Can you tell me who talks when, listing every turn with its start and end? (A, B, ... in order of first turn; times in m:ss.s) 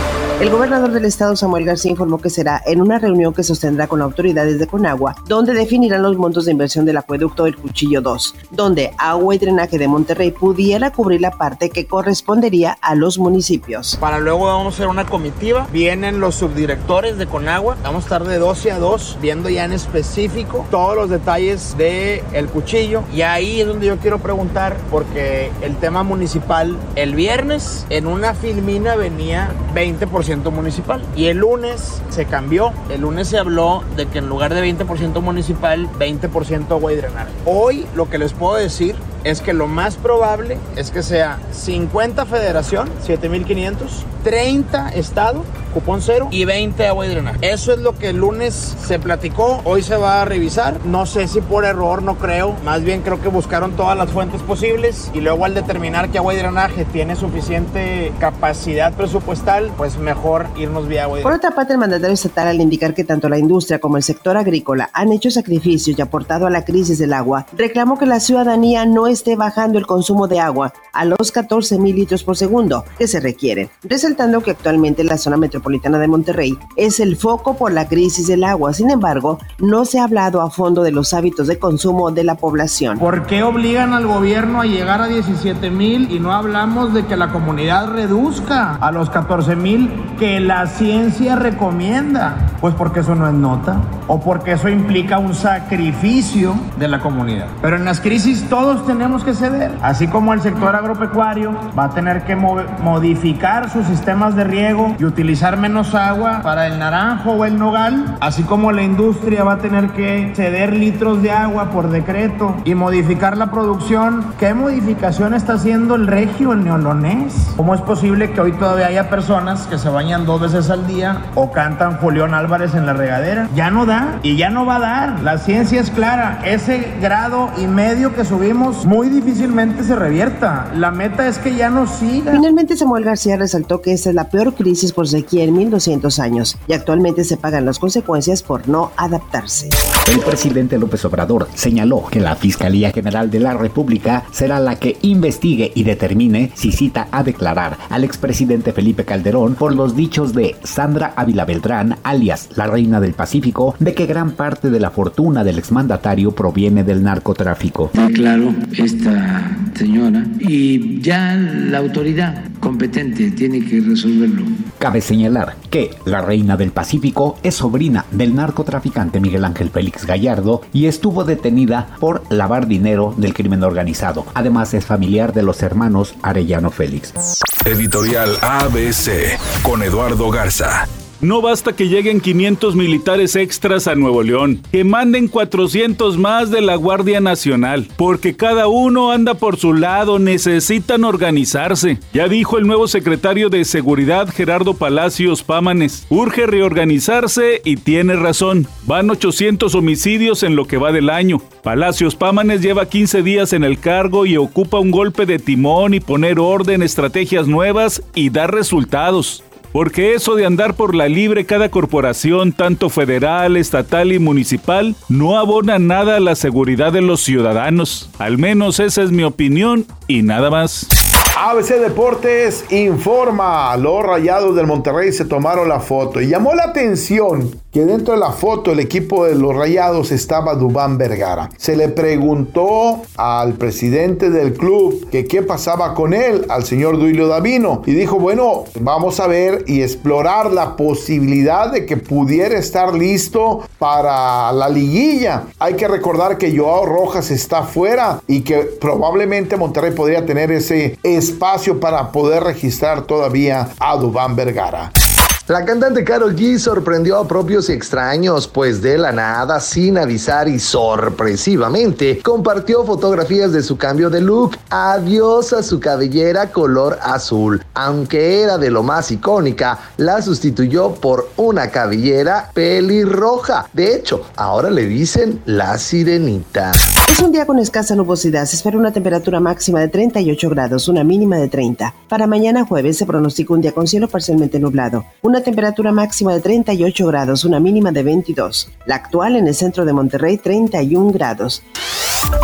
0:00.4-0:14.0 A
0:14.0-1:01.4 B
1:01.2-1:23.0 A
1:23.0-2:12.4 B
2:12.3-2:19.8 A
2:20.0-2:37.9 C
2:37.9-2:44.6 D
2:44.8-2:57.1 C
2:57.6-3:00.9 E
3:01.2-3:40.9 F
3:41.4-4:14.9 G
4:15.5-4:36.8 H
4:37.1-4:51.6 A